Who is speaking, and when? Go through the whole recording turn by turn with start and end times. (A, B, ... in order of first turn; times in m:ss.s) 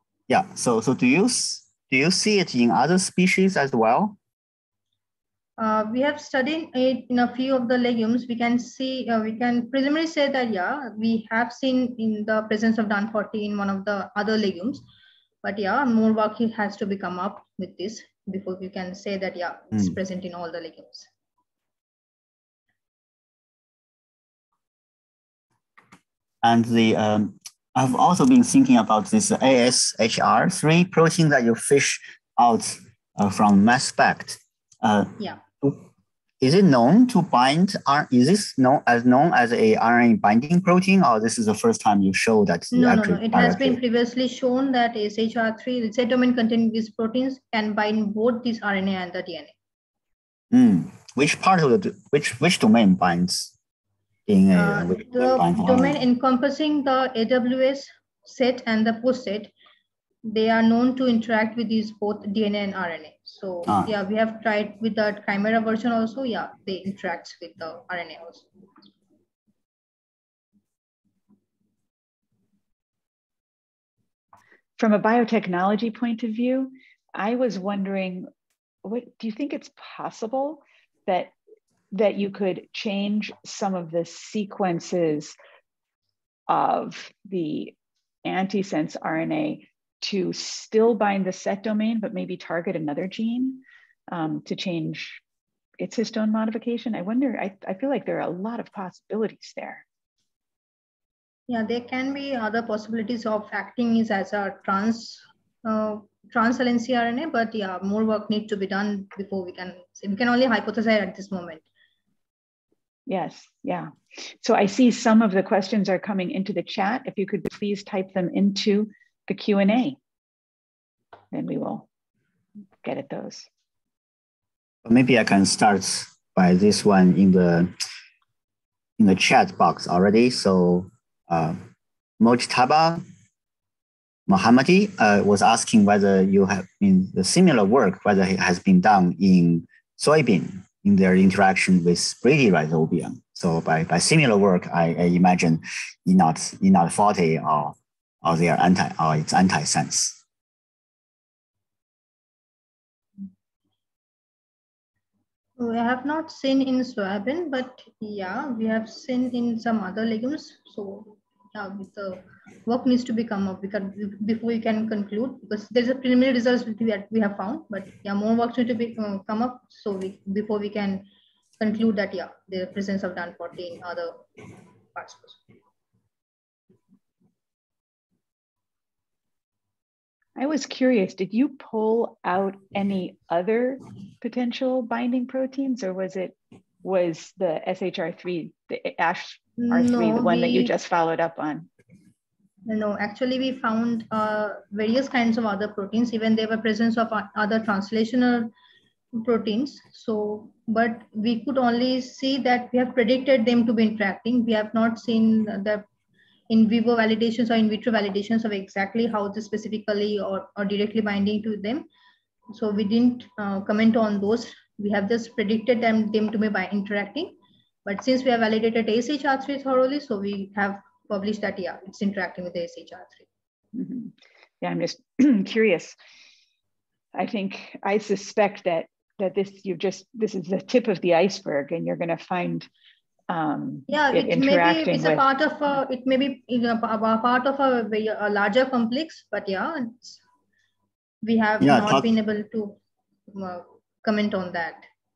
0:00.3-0:04.2 A
0:05.6-0:14.8 B
0:15.4-0:21.1 B
0:26.4-0:35.8 A
0:36.4-0:43.8 A
0:42.7-0:49.6 B
0:50.5-0:53.5 A
0:54.3-0:56.0 A
0:54.5-0:59.5 B
1:00.2-1:08.5 B
1:14.8-1:18.3 C
1:18.8-1:21.3 C
1:21.9-1:25.4 C
1:26.5-1:35.2 C
1:35.8-1:39.8 C
1:41.5-1:51.6 B
1:53.1-2:00.0 C
2:01.3-2:01.9 C
2:02.8-2:03.5 C
2:04.8-2:07.7 A
2:09.0-2:11.6 A
2:12.2-2:13.0 A
2:14.3-2:30.2 A
2:35.6-2:51.1 B
2:51.6-2:54.2 B
2:55.0-2:55.4 B
3:00.4-3:11.7 C
3:09.6-3:10.7 B
3:12.7-3:18.5 B
3:19.2-3:25.8 B
3:26.5-3:31.9 B
3:32.5-3:43.3 B
3:43.8-3:45.9 C
3:47.1-3:52.7 C
3:53.3-3:55.2 C
3:53.9-4:00.2 B
4:01.2-4:02.8 B
4:01.6-4:02.1 A
4:03.3-4:04.9 B